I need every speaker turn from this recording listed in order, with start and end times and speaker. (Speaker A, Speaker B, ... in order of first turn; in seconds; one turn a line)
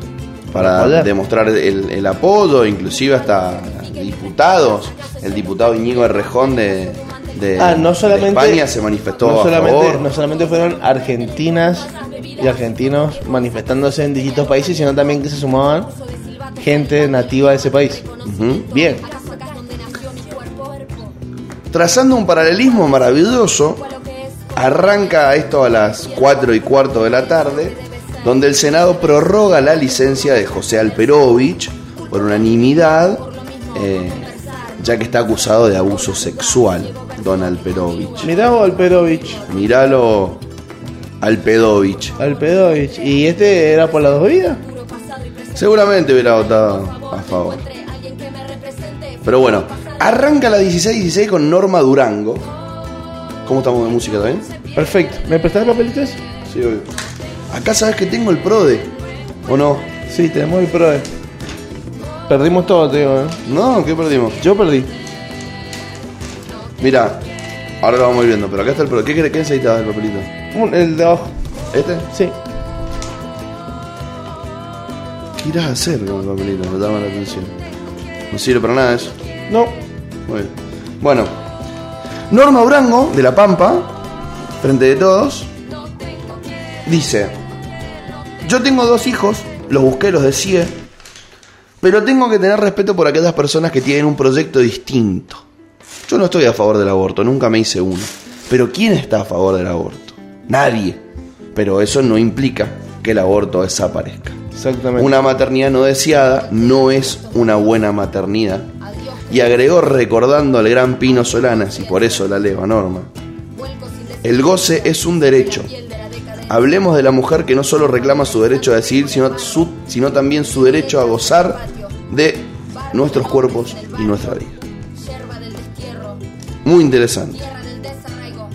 Speaker A: 0.5-10.1
Speaker B: 0.5-1.1
Speaker B: 7.6-8.7
Speaker B: 9.2-15.9
Speaker B: 16.6-18.1
Speaker A: 18.2-18.7
Speaker B: 18.7-19.1
Speaker A: 21.7-23.9
Speaker A: 24.6-38.3
Speaker B: 38.2-39.5
Speaker A: 39.5-40.5
Speaker A: 41.2-42.2
Speaker B: 42.2-44.6
Speaker A: 45.5-47.7
Speaker A: 49.2-52.5
Speaker A: 53.5-54.5
Speaker B: 54.8-56.2
Speaker A: 56.5-56.9
Speaker A: 57.5-58.9
Speaker A: 59.5-59.9
Speaker B: 60.1-61.1
Speaker B: 62.3-63.4
Speaker A: 63.5-64.4
Speaker B: 64.4-64.9
Speaker A: 66.8-67.2
Speaker A: 67.8-70.3
Speaker B: 70.5-71.3
Speaker A: 71.7-72.1
Speaker A: 75.4-77.6
Speaker A: 78.3-79.2
Speaker B: 79.5-79.8
Speaker A: 80.3-81.4
Speaker A: 82.3-84.0
Speaker A: 84.6-85.5
Speaker A: 86.8-87.4
Speaker A: 88.4-90.8
Speaker A: 91.8-95.4
Speaker A: 96.1-101.0
Speaker A: 101.5-104.4
Speaker B: 104.6-105.1
Speaker A: 105.0-108.7
Speaker A: 109.3-113.1
Speaker A: 114.2-115.7
Speaker A: 116.5-124.6
Speaker A: 126.6-127.5